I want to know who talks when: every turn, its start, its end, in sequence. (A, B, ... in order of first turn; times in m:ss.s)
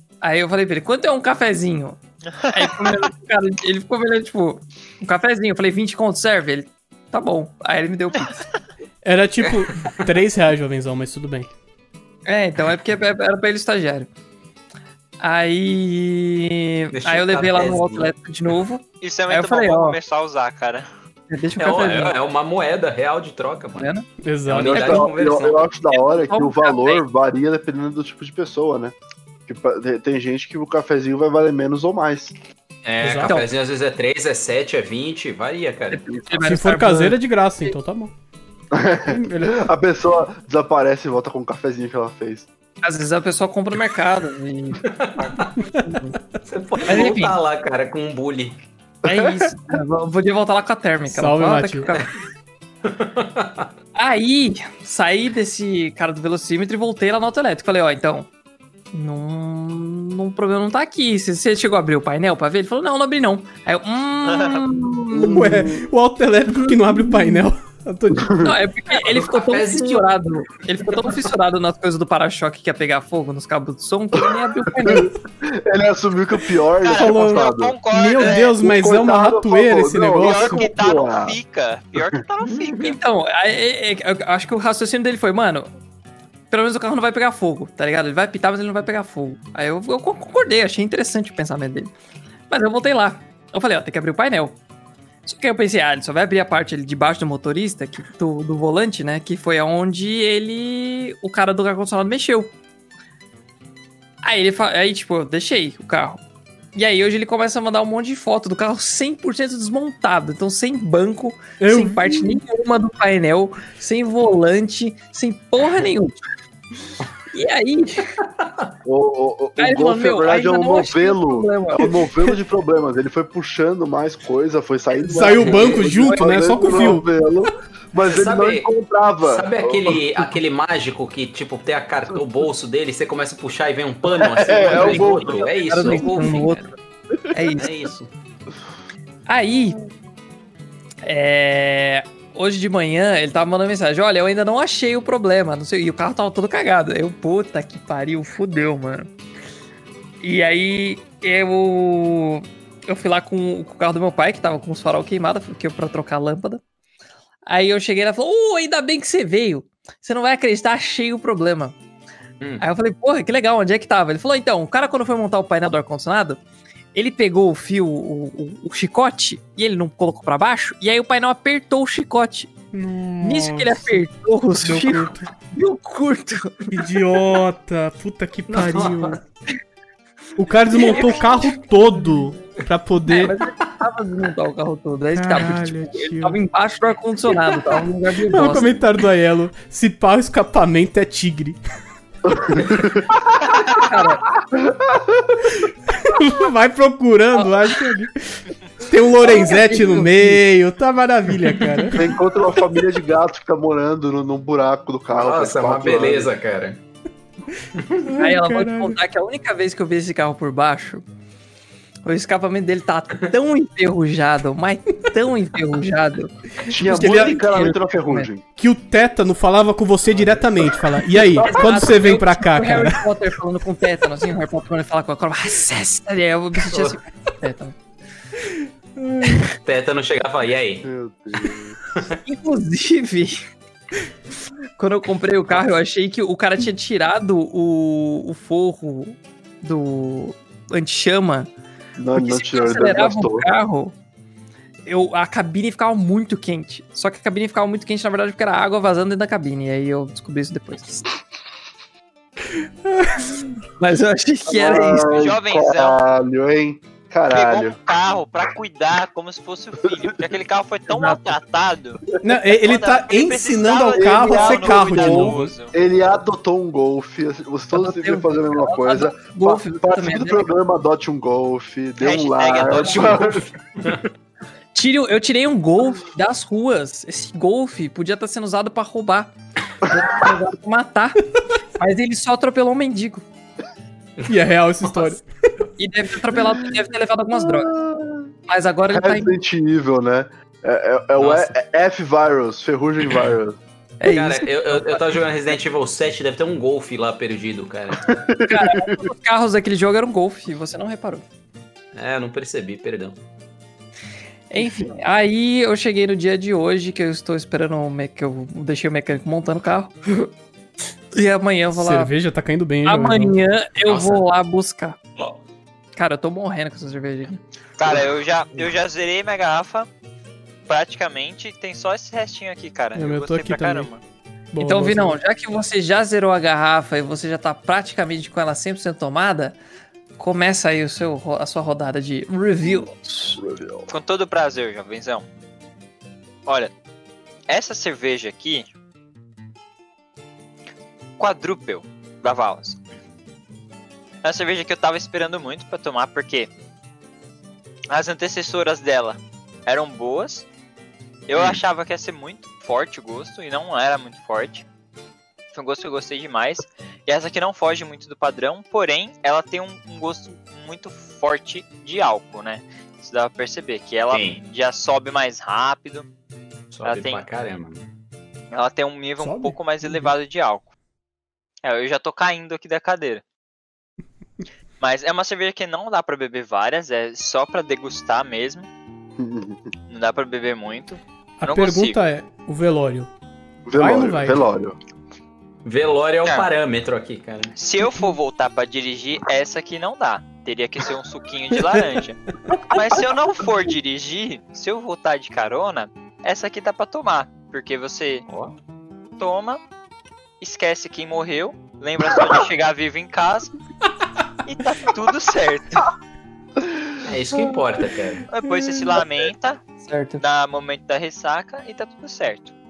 0:00.2-0:08.4 A
0:02.5-0:03.0 B
0:09.0-0:11.5 C
0:09.5-0:10.0 D
0:12.2-0:14.1 A
0:15.2-0:20.0 A
0:16.9-0:18.1 D
0:19.0-0:20.9 B
0:21.3-0:22.2 A
0:21.6-0:23.9 D
0:23.8-0:24.1 A
0:24.2-0:24.9 C
0:24.5-0:25.7 D
0:24.5-0:28.9 E
0:24.6-0:27.0 A
0:29.5-0:32.3 E
0:32.8-0:36.2 D
0:33.0-0:33.4 C
0:33.2-0:33.5 A
0:35.9-0:37.7 A
0:36.4-0:38.1 C
0:38.7-0:42.5 E
0:39.1-0:39.6 C
0:42.8-0:46.2 A
0:44.8-0:45.5 D
0:46.4-0:48.6 D
0:46.8-0:47.4 A
0:49.0-0:52.1 A
0:49.0-0:49.5 E
0:51.1-0:51.9 C
0:52.8-0:53.7 D
0:54.0-0:58.3 A
0:58.9-1:05.5 A
1:04.2-1:04.6 B
1:05.1-1:05.9 E
1:05.1-1:08.5 C
1:06.9-1:07.4 A
1:08.1-1:08.5 E
1:08.4-1:15.1 A
1:08.9-1:10.2 D
1:10.9-1:11.2 D
1:14.7-1:21.4 E
1:16.8-1:18.6 B
1:16.9-1:20.7 C
1:20.2-1:23.0 B
1:22.5-1:22.8 D
1:22.8-1:25.7 A
1:26.5-1:31.9 A
1:32.5-1:34.6 A
1:35.2-1:42.5 A
1:44.2-1:46.2 A
1:46.7-1:56.2 A
1:51.6-1:52.4 C
1:57.3-1:58.2 A
1:58.8-2:10.2 E
1:59.6-2:01.9 A
2:05.0-2:07.0 C
2:05.3-2:06.1 D
2:08.0-2:08.7 D
2:09.2-2:16.7 D
2:14.1-2:15.9 E
2:14.6-2:16.7 A
2:17.3-2:17.7 A
2:17.5-2:18.1 D
2:19.3-2:19.8 A
2:21.0-2:29.1 A
2:30.2-2:36.6 A
2:37.5-2:41.8 A
2:42.6-2:46.4 A
2:46.9-2:52.5 A
2:52.7-2:54.0 C
2:53.2-2:56.8 A
2:54.6-2:55.3 C
2:56.7-2:59.2 C
2:58.5-2:59.2 D
3:00.4-3:03.4 C
3:00.7-3:01.5 A
3:00.8-3:01.2 D
3:03.0-3:08.7 A
3:05.1-3:06.4 C
3:08.3-3:11.6 C
3:12.3-3:13.1 E
3:13.6-3:14.3 A
3:14.5-3:15.4 E
3:15.6-3:22.1 C
3:19.2-3:20.4 A
3:21.9-3:26.3 E
3:25.1-3:26.8 D
3:27.6-3:29.0 C
3:27.8-3:28.1 D
3:28.1-3:31.0 A
3:32.0-3:38.3 A
3:36.7-3:38.4 E
3:37.0-3:37.3 C
3:38.6-3:43.0 C
3:41.2-3:41.7 E
3:41.4-3:47.8 A
3:46.6-3:47.0 D
3:49.0-3:49.4 C
3:49.6-3:50.9 D
3:50.8-3:51.8 E
3:52.2-3:53.4 A
3:54.8-4:01.5 A
4:02.0-4:03.5 E
4:02.1-4:03.9 A
4:04.8-4:11.1 A
4:12.9-4:13.4 C
4:13.8-4:15.2 A
4:14.5-4:17.8 E
4:15.1-4:16.0 B
4:17.3-4:25.7 B
4:20.9-4:21.3 A
4:22.2-4:25.5 C
4:23.9-4:33.5 E
4:27.7-4:30.5 A
4:32.0-4:33.3 B
4:32.6-4:34.0 D
4:34.7-4:41.2 A
4:41.8-4:43.2 A
4:44.3-4:45.2 C
4:44.8-4:45.1 D
4:45.8-4:47.8 A
4:47.4-4:48.3 E
4:48.5-4:49.4 A
4:48.9-4:53.6 E
4:51.2-4:51.5 D
4:54.0-4:55.0 A
4:54.0-4:58.2 D
4:58.0-4:59.1 E
4:58.4-5:01.2 A
5:01.9-5:03.2 D
5:04.5-5:10.3 A
5:11.1-5:12.1 A
5:11.7-5:13.4 C
5:12.8-5:15.0 A
5:13.8-5:14.2 D
5:16.0-5:17.4 A
5:17.8-5:19.9 B
5:20.7-5:24.0 B
5:22.9-5:23.9 C
5:24.5-5:25.2 C
5:24.6-5:29.6 A
5:30.2-5:33.4 A
5:32.6-5:33.9 E
5:33.9-5:35.3 B
5:36.4-5:36.7 B
5:37.5-5:38.7 B
5:41.2-5:42.8 B
5:44.2-5:46.5 B
5:47.9-5:50.5 B
5:51.3-5:54.6 B
5:51.3-5:51.6 D
5:55.5-6:06.1 B
6:04.1-6:04.4 D
6:06.7-6:07.9 D
6:06.8-6:07.2 B
6:08.5-6:10.7 B
6:09.2-6:10.1 C
6:11.6-6:13.2 B
6:14.8-6:18.7 B
6:19.2-6:19.7 E
6:19.9-6:22.0 B
6:21.4-6:23.1 C
6:23.7-6:24.8 E
6:23.7-6:24.4 C
6:25.6-6:27.6 D
6:27.6-6:38.2 B
6:38.3-6:38.5 D
6:39.2-6:39.6 B
6:40.4-6:43.5 B
6:44.4-6:45.9 B
6:47.0-6:48.3 D
6:48.3-6:49.6 B
6:49.8-6:50.2 A
6:50.2-6:52.5 B